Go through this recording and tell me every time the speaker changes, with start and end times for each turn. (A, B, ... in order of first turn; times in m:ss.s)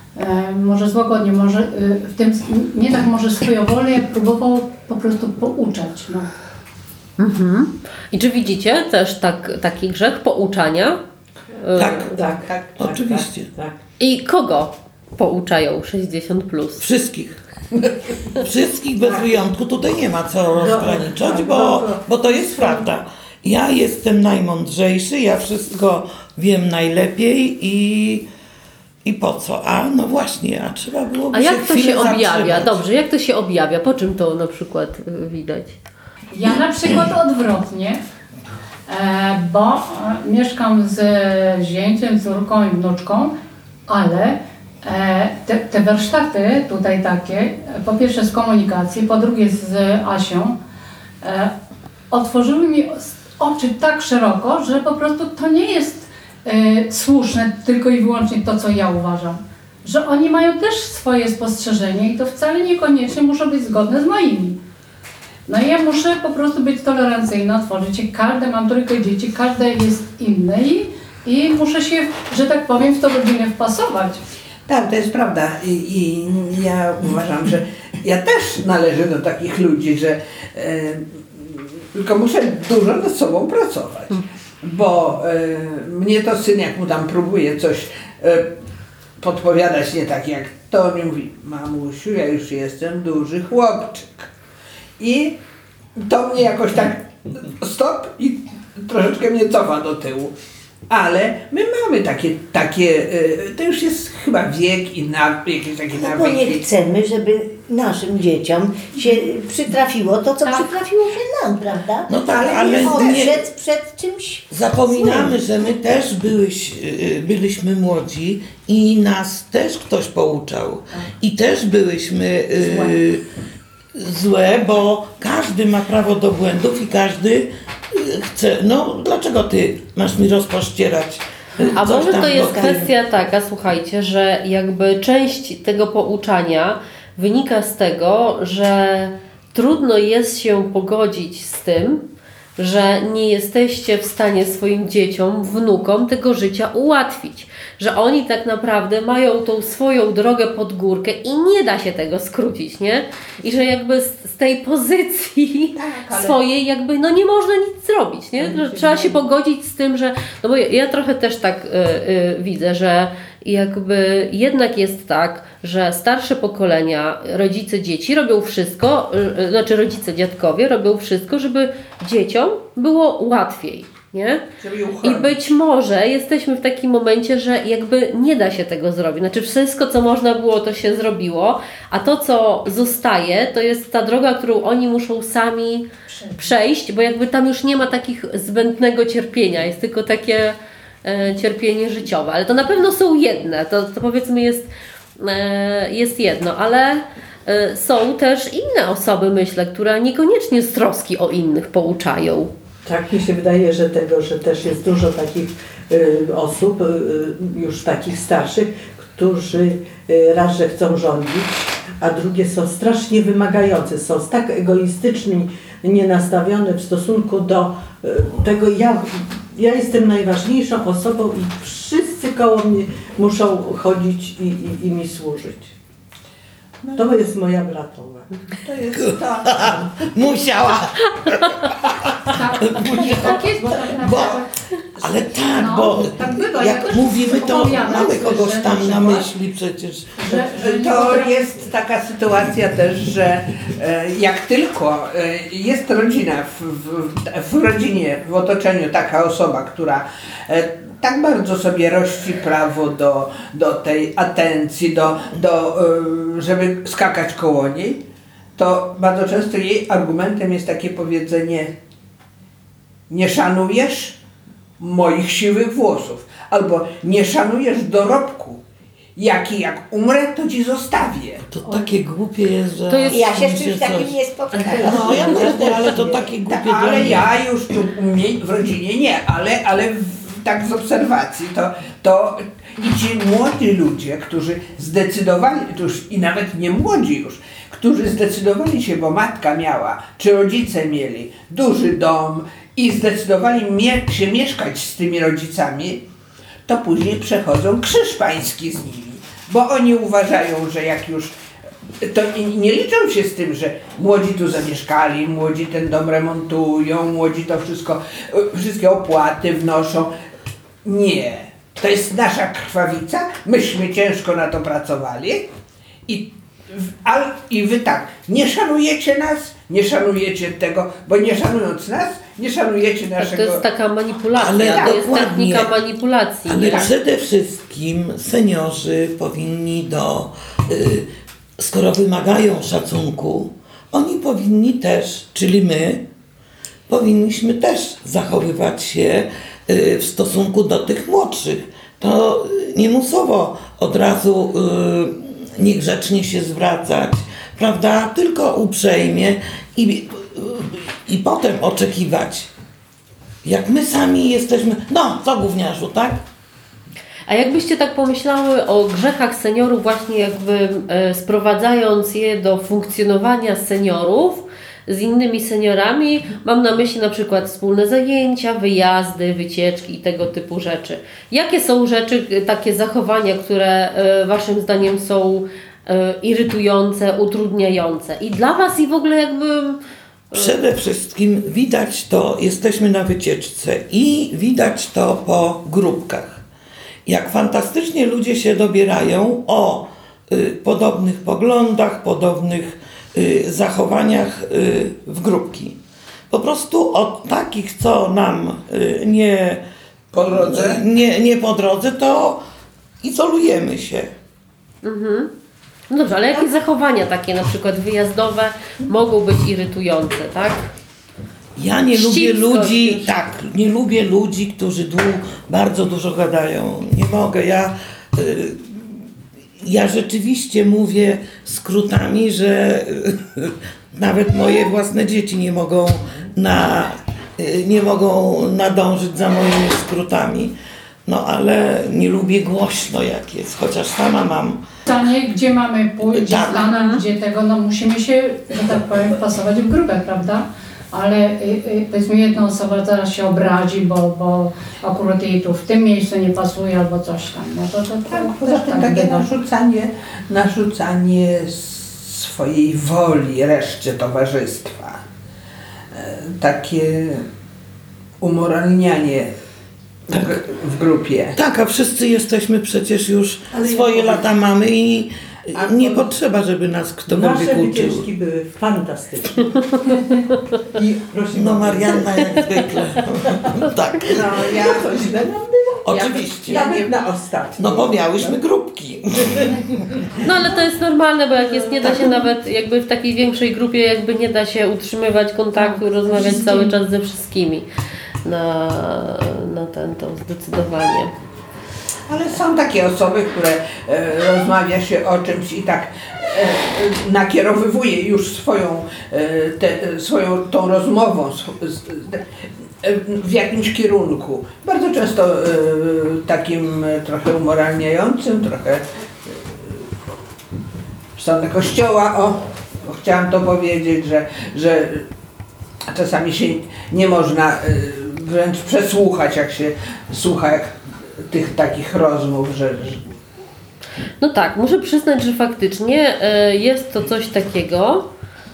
0:00.2-0:06.3 A
0:07.2-0:11.0 B
0:11.6-0:12.2 B
0:11.8-0:13.5 C
0:12.0-0:13.8 D
0:14.0-0:16.9 B
0:16.8-0:17.4 C
0:18.3-0:28.3 C
0:19.0-0:19.5 D
0:20.6-0:22.9 D
0:29.0-0:32.8 C
0:31.3-0:35.8 B
0:36.3-0:38.0 A
0:38.9-0:43.3 A
0:43.9-0:50.6 A
0:51.2-0:51.5 A
0:52.1-1:04.6 A
1:05.5-1:14.2 A
1:14.7-1:28.6 E
1:29.2-1:34.3 E
1:35.0-1:35.4 E
1:36.0-1:40.3 E
1:40.9-1:46.6 E
1:46.0-1:55.4 F
1:50.4-1:50.8 A
1:52.1-1:53.4 C
1:52.3-1:53.2 E
1:54.5-2:03.2 C
2:02.6-2:02.9 A
2:04.0-2:12.9 C
2:11.8-2:22.0 B
2:22.6-2:54.4 B
2:35.8-2:36.4 E
2:54.6-2:55.3 E
2:55.0-3:05.9 B
3:06.1-3:06.5 A
3:06.4-3:22.5 B
3:22.8-3:45.8 D
3:47.0-3:48.3 D
3:48.6-3:50.1 E
3:49.0-3:54.4 C
3:52.3-3:54.6 A
3:55.0-4:00.4 C
3:55.4-3:59.3 A
4:00.2-4:01.5 A
4:00.6-4:18.0 E
4:18.6-4:21.7 E
4:23.1-4:24.2 E
4:24.8-4:28.6 E
4:29.2-4:31.5 E
4:31.5-4:37.3 C
4:32.9-4:33.3 B
4:33.1-4:36.3 F
4:36.5-4:56.0 E
4:56.7-5:01.4 E
5:02.0-5:10.1 E
5:10.8-5:15.5 E
5:16.1-5:23.6 E
5:23.2-5:26.9 B
5:24.3-5:25.8 C
5:26.5-5:31.1 C
5:31.6-5:36.0 C
5:36.9-5:52.5 C
5:53.4-5:56.2 C
5:57.3-6:19.8 B
6:20.3-6:26.4 C
6:27.1-6:35.8 C
6:36.3-6:39.6 C
6:40.1-6:40.8 E
6:40.3-6:42.4 C
6:43.0-6:44.1 C
6:44.8-6:45.3 B
6:45.9-6:50.7 B
6:51.6-6:59.1 C
6:51.9-6:53.1 B
6:59.6-7:10.5 C
7:11.1-7:14.6 C
7:14.9-7:29.3 A
7:16.1-7:16.7 C
7:16.7-7:17.0 B
7:28.1-7:35.0 E
7:35.9-7:37.3 E
7:38.2-7:39.3 E
7:40.1-7:41.4 E
7:41.4-7:48.0 C
7:43.5-7:44.3 D
7:45.7-7:46.0 D
7:47.1-7:50.0 D
7:50.7-7:52.7 D
7:51.4-7:54.3 C
7:53.3-7:53.5 D
7:54.0-7:58.2 D
7:54.3-7:55.2 E
7:55.9-7:56.6 C
7:55.9-7:57.0 E
7:57.6-8:00.0 C
8:00.2-8:07.7 B
8:05.6-8:06.7 A
8:08.2-8:11.1 B
8:12.1-8:22.2 E
8:22.8-8:29.7 E
8:31.2-8:35.1 E
8:35.9-8:40.8 E
8:41.3-8:43.0 E
8:44.2-8:48.1 B